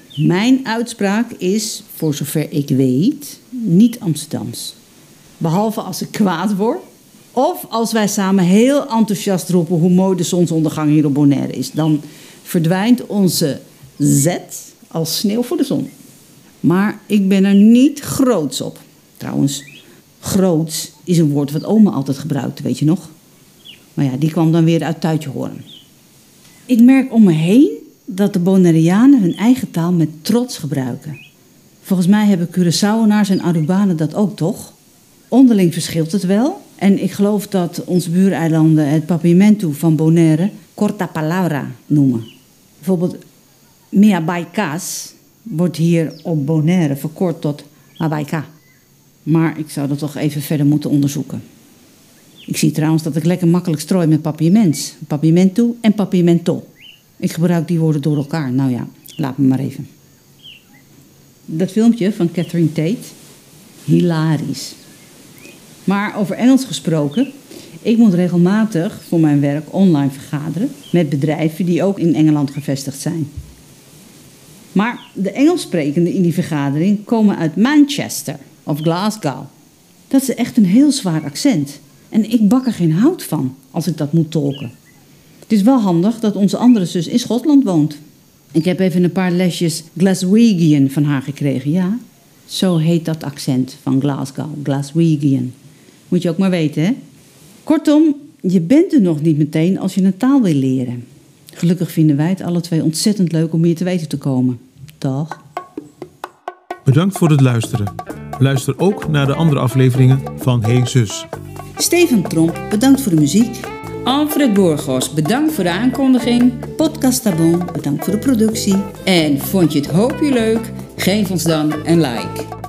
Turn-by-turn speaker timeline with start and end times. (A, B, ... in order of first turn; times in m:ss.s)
0:00.2-0:04.8 A
0:05.4-0:06.8 A
0:07.3-0:15.9 A
0:16.6-0:19.7 A
0:20.2-0:23.1 A
0:24.0-0:25.6 A
0:26.7-0:31.2 A
0:31.8-0:34.7 A
0:35.3-0:42.3 A
0:42.8-0:43.2 A
0:43.9-0:48.5 A
0:49.2-0:51.4 A
0:52.5-0:56.6 A
0:57.2-0:59.9 A
1:01.5-1:03.1 A
1:03.8-1:04.8 A
1:05.8-1:07.3 A
1:07.8-1:13.3 A
1:14.7-1:19.5 A
1:20.1-1:24.7 A
1:25.5-1:28.0 A
1:28.5-1:35.5 A
1:36.1-1:37.0 A
1:37.6-1:45.4 A
1:46.8-1:51.3 B
1:51.8-1:53.6 A
1:54.0-1:56.7 C
1:56.7-1:58.9 A
1:59.0-2:02.5 C